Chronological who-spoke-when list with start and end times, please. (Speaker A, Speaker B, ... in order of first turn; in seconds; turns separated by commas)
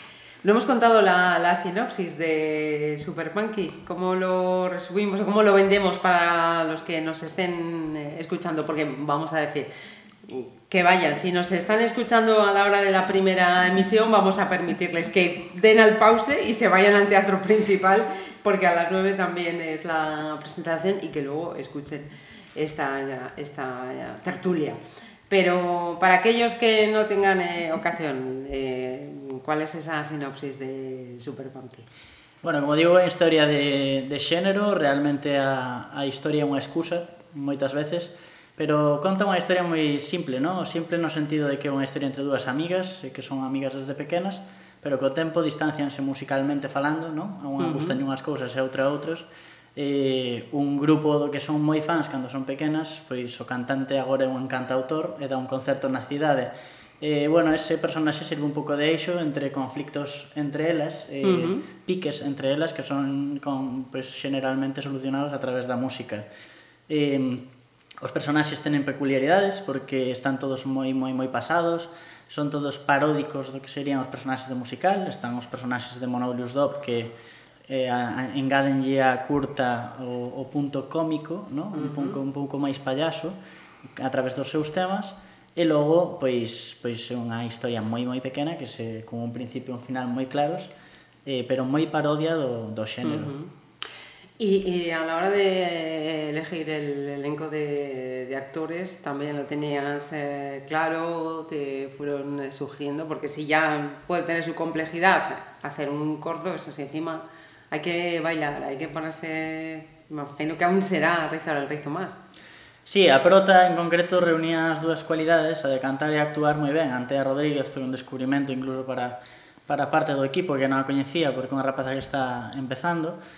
Speaker A: 0.4-9.7, Speaker A: 10.3-31.9, Speaker B: 32.4-66.2, Speaker A: 47.6-48.0, Speaker A: 61.2-61.6, Speaker B: 66.9-67.5, Speaker B: 68.0-77.1, Speaker B: 77.7-83.4, Speaker A: 81.7-82.2, Speaker B: 84.0-90.7, Speaker B: 91.3-93.3, Speaker A: 93.0-93.5, Speaker A: 94.4-112.2, Speaker B: 112.9-123.2